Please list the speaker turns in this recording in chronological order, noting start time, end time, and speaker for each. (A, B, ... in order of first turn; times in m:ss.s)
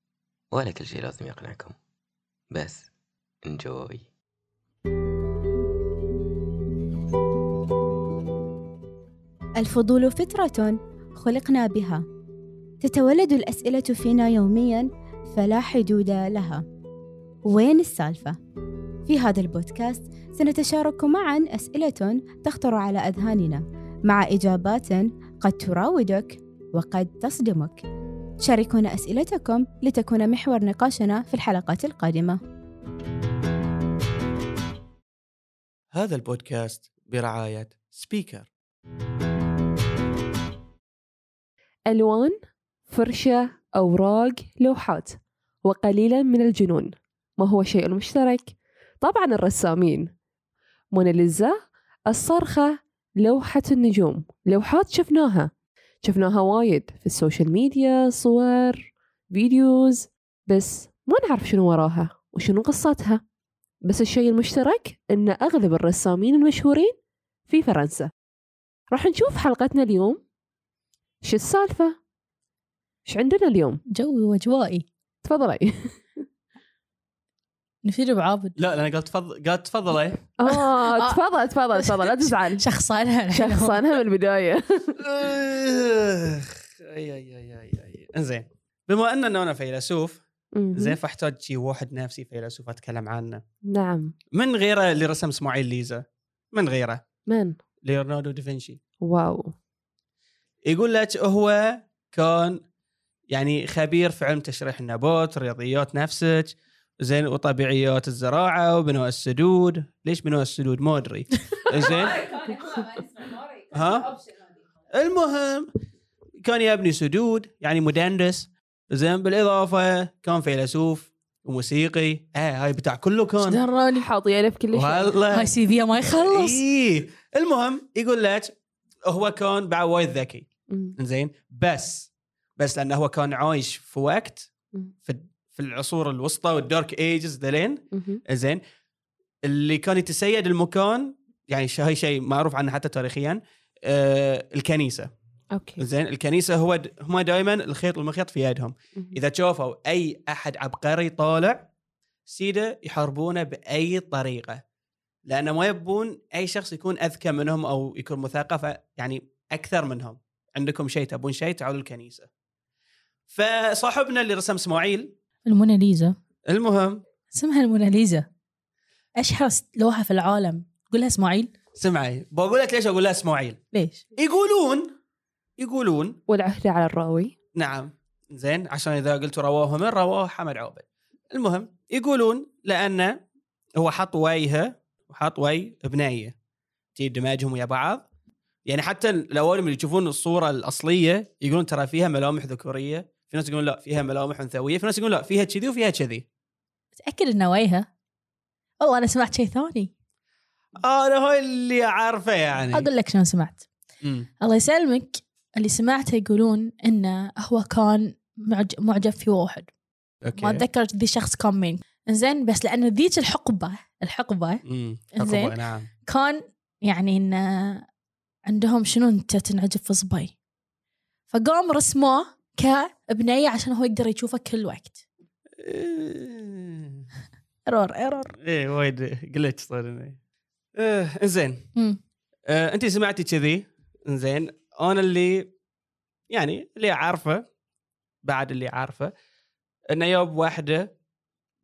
0:00.5-0:01.7 A
0:02.5-0:02.9 A
0:03.4-0:04.0 A
0:09.6-0:12.0 B
0:12.8-0:16.6 B
0:17.4-0:18.4 B
0:19.0-0:27.8 B
0:28.4-0:32.4 B
0:35.9-0:38.5 C
0:41.9-0:42.4 D
0:42.9-0:50.1 D
0:50.9-0:51.6 D
0:52.1-0:55.5 D
0:56.0-1:03.2 D
1:03.8-1:06.9 D
1:07.5-1:08.1 D
1:08.9-1:10.2 D
1:11.2-1:12.0 D
1:13.0-1:13.8 D
1:13.9-1:14.8 E
1:15.2-1:16.0 D
1:17.8-1:18.5 E
1:18.6-1:20.2 C
1:20.4-1:22.6 D
1:20.5-1:21.2 E
1:21.7-1:23.8 E
1:23.3-1:25.0 D
1:25.0-1:30.2 C
1:30.5-1:31.0 D
1:30.7-1:33.4 C
1:33.7-1:34.1 D
1:34.3-1:37.0 C
1:37.3-1:37.6 D
1:37.8-1:38.8 C
1:39.0-1:39.5 D
1:40.7-1:42.6 C
1:43.3-1:52.8 C
1:53.7-1:54.2 C
1:54.9-1:55.7 C
1:56.4-2:03.6 C
2:03.4-2:04.1 E
2:03.9-2:05.2 D
2:04.7-2:05.5 C
2:05.3-2:06.6 E
2:06.0-2:08.5 C
2:09.0-2:14.5 C
2:10.7-2:10.9 D
2:15.0-2:18.6 C
2:17.9-2:18.2 D
2:19.4-2:25.1 C
2:25.5-2:25.8 D
2:25.8-2:31.7 C
2:32.3-2:34.6 C
2:35.2-2:42.3 C
2:43.3-2:45.1 C
2:45.4-2:46.2 E
2:46.5-2:47.0 C
2:47.3-2:48.2 E
2:49.2-2:51.5 E
2:51.8-2:53.6 C
2:53.7-2:54.0 E
2:54.2-2:54.9 C
2:55.6-2:56.2 C
2:56.3-2:57.3 D
2:57.5-3:03.2 C
3:03.8-3:06.3 C
3:07.0-3:08.0 C
3:08.6-3:16.2 C
3:17.0-3:17.9 E
3:18.8-3:19.9 E
3:20.8-3:22.9 C
3:22.7-3:23.6 E
3:24.0-3:24.3 C
3:24.4-3:29.7 E
3:30.2-3:30.6 C
3:30.4-3:34.6 E
3:34.6-3:35.9 C
3:35.2-3:37.8 E
3:38.5-3:40.3 E
3:41.3-3:45.0 E
3:45.6-3:47.0 C
3:47.7-3:48.4 E
3:48.4-3:50.2 C
3:50.8-3:51.7 C
3:52.5-3:55.5 C
3:56.3-3:57.4 C
3:58.2-3:59.1 C
3:59.9-4:00.9 C